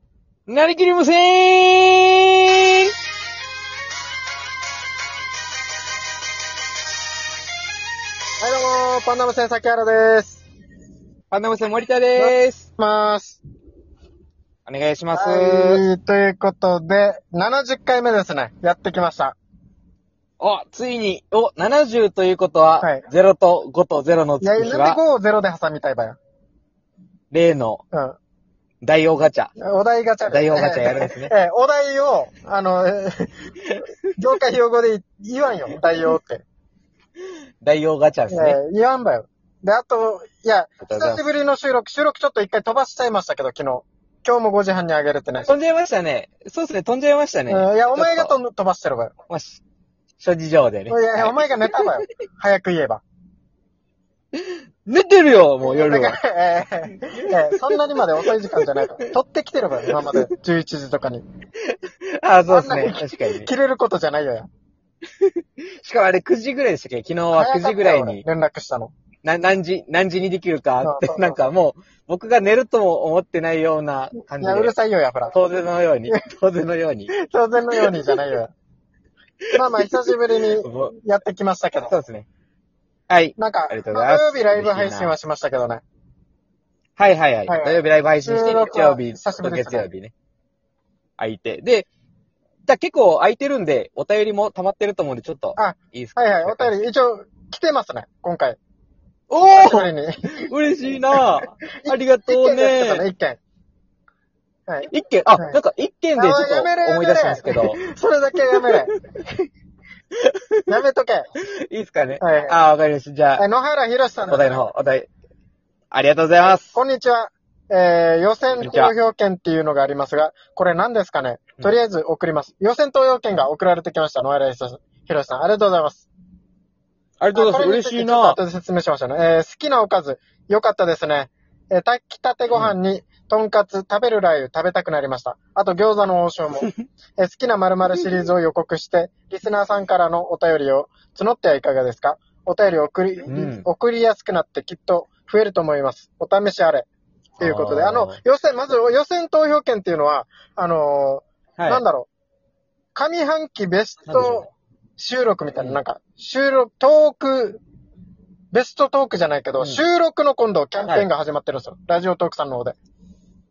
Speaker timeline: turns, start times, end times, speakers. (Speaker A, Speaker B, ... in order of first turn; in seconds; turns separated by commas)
Speaker A: 0.5-2.9, Speaker B: 8.4-10.4, Speaker A: 11.3-12.7, Speaker B: 12.2-13.4, Speaker A: 14.7-15.8, Speaker B: 15.1-19.4, Speaker A: 20.4-25.0, Speaker B: 22.8-23.1, Speaker B: 24.4-26.2, Speaker A: 27.3-27.8, Speaker A: 28.8-29.5, Speaker B: 29.6-33.3, Speaker A: 30.3-31.3, Speaker B: 34.1-36.4, Speaker A: 37.6-38.6, Speaker B: 38.3-45.5, Speaker A: 40.8-41.2, Speaker A: 45.5-48.3, Speaker B: 47.5-49.1, Speaker A: 49.3-49.6, Speaker A: 50.2-52.0, Speaker B: 50.9-53.0, Speaker A: 54.3-56.2, Speaker B: 55.6-61.2, Speaker A: 57.0-58.9, Speaker A: 59.9-60.3, Speaker A: 61.6-63.5, Speaker B: 62.5-64.5, Speaker A: 65.2-68.2, Speaker B: 67.3-68.9, Speaker A: 69.2-74.7, Speaker B: 70.8-71.4, Speaker B: 74.4-75.3, Speaker A: 75.3-77.1, Speaker B: 77.1-78.5, Speaker A: 77.7-78.1, Speaker A: 79.5-80.0, Speaker B: 79.5-81.9, Speaker A: 80.6-81.0, Speaker A: 81.9-82.2, Speaker A: 83.1-85.1, Speaker B: 83.4-85.8, Speaker A: 87.0-90.1, Speaker B: 87.5-89.8, Speaker A: 91.2-91.9, Speaker A: 92.7-96.7, Speaker B: 95.6-98.6, Speaker A: 99.3-99.9, Speaker B: 99.4-100.5, Speaker A: 100.4-103.0, Speaker B: 101.8-103.4, Speaker B: 104.7-105.6, Speaker A: 104.9-107.8, Speaker B: 106.2-108.9, Speaker A: 108.5-108.9, Speaker A: 110.2-110.6, Speaker B: 110.7-111.3, Speaker A: 111.7-113.4, Speaker B: 112.2-112.6, Speaker B: 113.4-114.6, Speaker A: 114.3-115.1, Speaker A: 115.9-116.7, Speaker B: 116.5-126.1, Speaker A: 118.6-118.9, Speaker A: 127.2-128.4, Speaker B: 127.3-146.9, Speaker A: 143.3-143.7, Speaker A: 147.4-148.2, Speaker B: 147.4-152.1, Speaker A: 151.6-151.8, Speaker B: 152.9-157.6, Speaker A: 154.1-154.5, Speaker A: 155.5-155.8, Speaker B: 158.5-162.8